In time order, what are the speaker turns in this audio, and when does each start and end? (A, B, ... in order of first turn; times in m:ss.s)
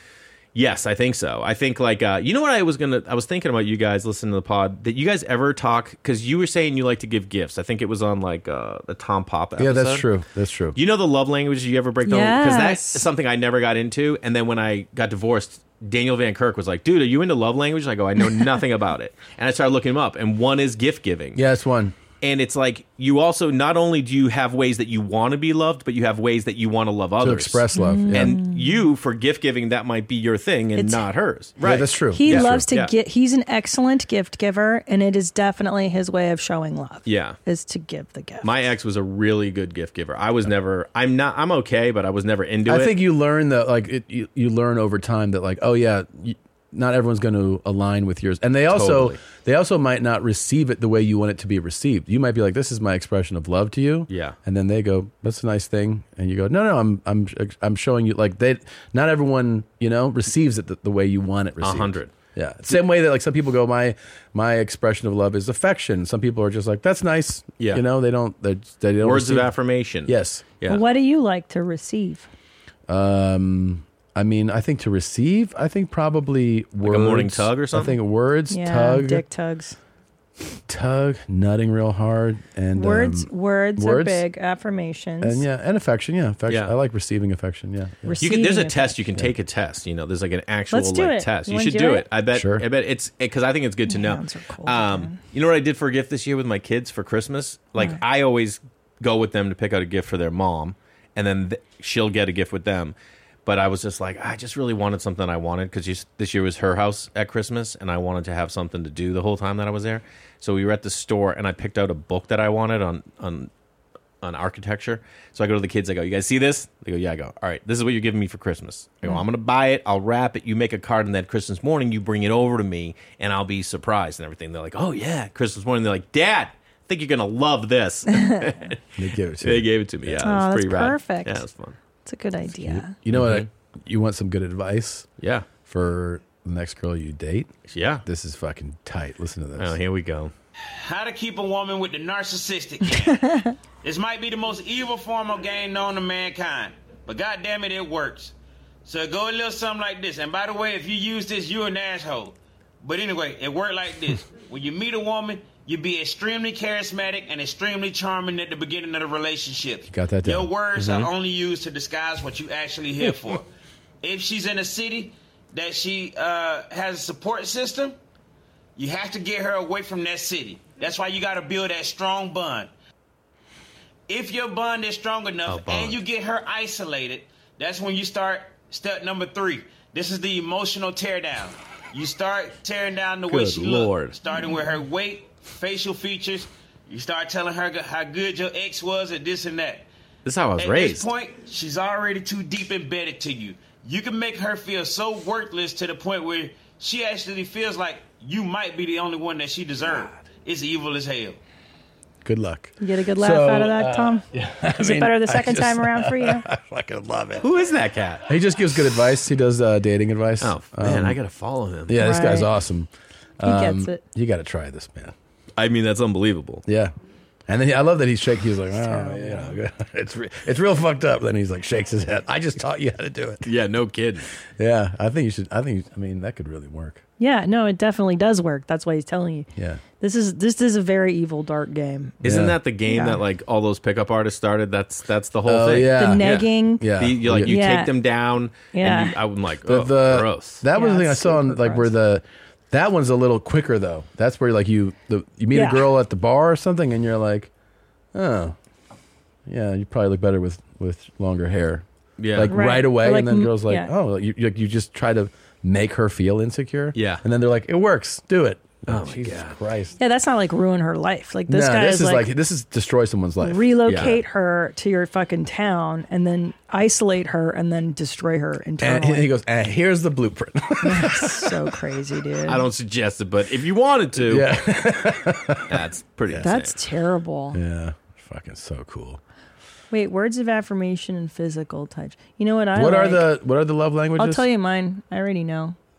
0:00.5-0:10.1 A
0:09.6-0:10.8 B
0:10.8-0:21.4 A
0:12.0-0:13.1 C
0:21.4-0:22.0 B
0:22.2-0:32.9 A
0:27.2-0:28.4 B
0:27.7-0:28.9 C
0:30.8-0:31.0 C
0:31.6-0:32.7 B
0:32.2-0:38.5 C
0:37.1-0:37.4 A
0:38.4-0:42.9 A
0:42.7-1:09.5 B
0:48.7-0:49.2 A
0:54.1-0:54.4 A
1:01.6-1:02.1 A
1:07.6-1:07.8 A
1:09.0-1:10.8 A
1:10.0-1:10.5 B
1:10.7-1:12.3 C
1:12.9-1:19.2 B
1:16.8-1:18.0 A
1:18.5-1:19.8 C
1:20.7-1:24.2 B
1:22.8-1:25.4 C
1:25.2-1:28.2 B
1:26.5-1:26.7 A
1:28.0-1:29.2 C
1:28.2-1:43.0 A
1:30.7-1:32.1 C
1:32.3-1:32.7 B
1:33.9-1:35.2 C
1:37.8-1:38.0 C
1:43.5-1:53.5 A
1:54.2-2:08.8 A
2:08.1-2:08.5 C
2:09.0-2:10.2 B
2:09.4-2:11.8 A
2:10.2-2:11.4 C
2:12.0-2:12.9 C
2:12.5-2:15.1 B
2:13.1-2:13.5 A
2:15.2-2:15.5 A
2:15.6-2:17.5 B
2:17.7-2:18.0 A
2:18.0-2:19.8 B
2:19.6-2:20.3 A
2:20.7-2:23.2 D
2:23.1-2:23.5 C
2:23.8-2:28.3 D
2:28.8-2:43.4 D
2:39.9-2:41.1 B
2:44.0-2:48.0 D
2:48.8-2:52.7 D
2:54.1-3:09.9 D
2:55.5-2:56.0 A
3:03.3-3:04.2 A
3:10.2-3:11.1 A
3:10.6-3:21.4 D
3:22.2-3:27.5 B
3:22.8-3:24.2 C
3:24.8-3:26.4 C
3:27.4-3:28.2 A
3:28.3-3:31.2 B
3:30.4-3:32.0 A
3:31.9-3:35.1 B
3:32.0-3:32.5 C
3:33.4-3:34.0 C
3:35.6-3:36.6 A
3:36.7-3:36.9 B
3:37.5-3:43.5 B
3:38.8-3:39.6 C
3:43.4-3:44.3 A
3:44.6-3:47.0 B
3:47.2-3:49.5 C
3:49.6-3:49.8 B
3:50.0-3:52.2 C
3:52.2-4:00.6 A
3:52.2-3:52.6 B
3:52.9-3:53.2 C
3:55.5-3:57.5 B
3:56.0-3:57.9 C
3:58.7-3:59.2 C
3:59.6-4:07.5 B
4:00.7-4:01.9 C
4:05.5-4:05.9 C
4:08.1-4:08.6 B
4:09.5-4:20.0 B
4:12.2-4:12.6 A
4:12.5-4:13.9 C
4:17.0-4:17.2 A
4:18.9-4:19.6 A
4:20.0-4:22.3 C
4:21.5-4:23.7 B
4:23.4-4:29.3 C
4:23.9-4:24.2 A
4:28.8-4:31.6 B
4:30.8-4:32.7 C
4:32.5-4:34.5 A
4:34.2-4:36.5 B
4:35.7-4:36.8 A
4:36.4-4:37.6 C
4:37.5-4:39.2 B
4:39.9-4:43.3 C
4:42.8-4:44.4 B
4:44.2-4:45.8 C